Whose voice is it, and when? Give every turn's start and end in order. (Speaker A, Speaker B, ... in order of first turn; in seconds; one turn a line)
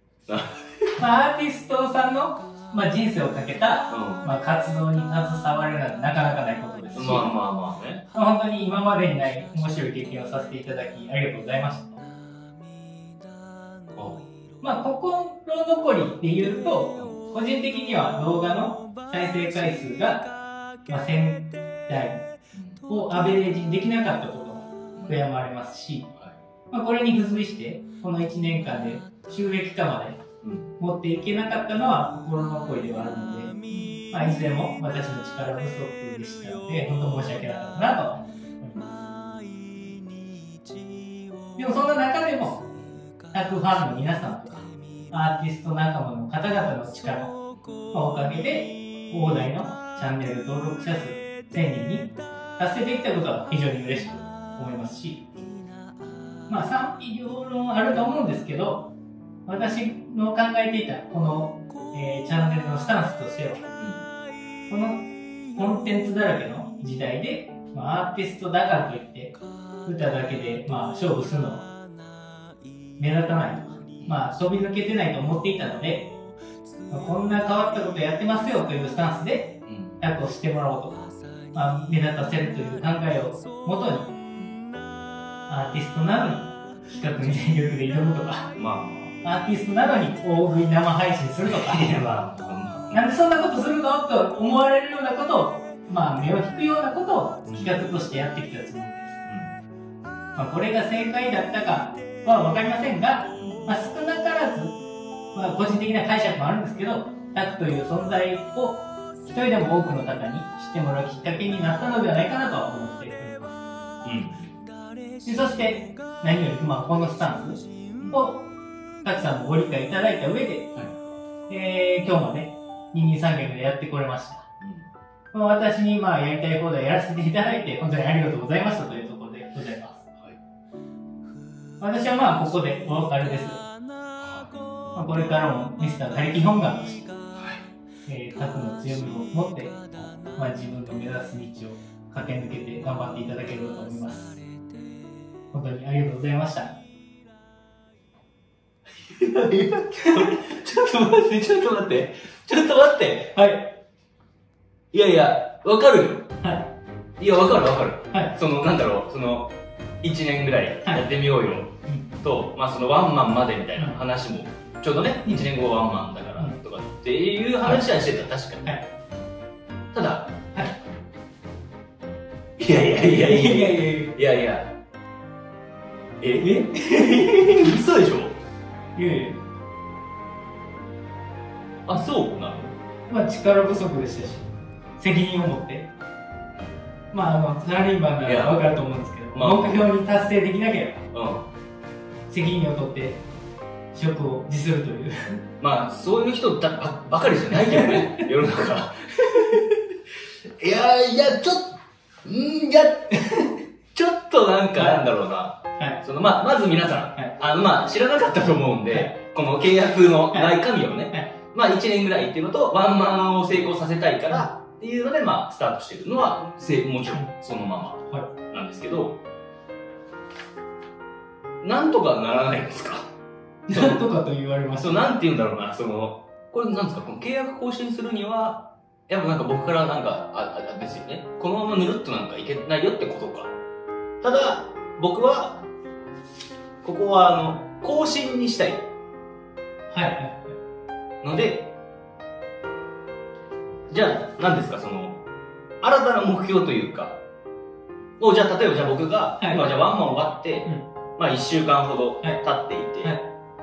Speaker A: 0.3-0.9
Speaker B: 1.0-7.3
Speaker A: 3.9-4.2
Speaker A: 6.9-8.1
Speaker B: 8.1-12.1
Speaker A: 13.9-14.2
Speaker B: 14.6-20.3
Speaker B: 20.9-22.3
Speaker A: 22.5-22.8
Speaker B: 22.9-26.1
Speaker A: 26.1-26.4
Speaker B: 26.7-30.2
Speaker A: 30.4-30.7
Speaker B: 30.8-33.5
Speaker B: 34.1-38.9
Speaker B: 41.6-42.7
Speaker B: 43.3-47.4
Speaker B: 47.9-55.2
Speaker B: 56.5-58.9
Speaker B: 59.5-63.6
Speaker A: 63.8-64.0
Speaker B: 64.7-71.7
Speaker B: 73.0-76.1
Speaker B: 76.9-84.1
Speaker A: 79.7-80.0
Speaker B: 85.5-88.5
Speaker A: 88.5-89.2
Speaker B: 89.2-91.9
Speaker A: 91.5-93.0
Speaker B: 92.9-99.2
Speaker A: 97.5-97.7
Speaker A: 99.2-99.5
Speaker B: 100.4-104.8
Speaker A: 103.4-103.7
Speaker B: 105.3-113.5
Speaker A: 114.0-114.5
Speaker B: 115.2-118.5
Speaker B: 119.0-120.7
Speaker B: 121.5-124.5
Speaker A: 124.6-124.9
Speaker B: 125.3-130.1
Speaker B: 131.8-133.6
Speaker A: 134.2-134.5
Speaker B: 134.9-137.1
Speaker A: 137.4-137.7
Speaker B: 138.1-139.8
Speaker B: 140.3-144.4
Speaker B: 145.5-146.8
Speaker A: 149.0-153.4
Speaker B: 153.3-153.8
Speaker A: 154.9-156.3
Speaker B: 156.4-156.7
Speaker A: 157.2-168.8
Speaker A: 169.9-170.4
Speaker A: 172.6-174.7
Speaker B: 172.8-174.2
Speaker A: 176.2-178.4
Speaker B: 176.4-177.8
Speaker B: 178.9-179.4
Speaker A: 181.9-182.8
Speaker B: 183.1-184.5
Speaker B: 185.0-185.9
Speaker B: 187.1-191.1
Speaker A: 188.2-188.7
Speaker A: 189.3-189.8
Speaker A: 191.1-191.5
Speaker B: 192.3-193.2
Speaker B: 193.9-195.4
Speaker A: 195.6-199.8
Speaker B: 197.7-198.2
Speaker A: 200.4-219.2
Speaker A: 221.6-223.1
Speaker B: 223.7-225.1
Speaker A: 223.7-224.0
Speaker A: 224.8-233.5
Speaker A: 234.2-235.6
Speaker A: 236.8-238.9
Speaker B: 239.9-240.6
Speaker A: 241.2-241.7
Speaker A: 243.9-245.2
Speaker A: 245.8-247.2
Speaker A: 248.2-253.1
Speaker B: 249.4-249.7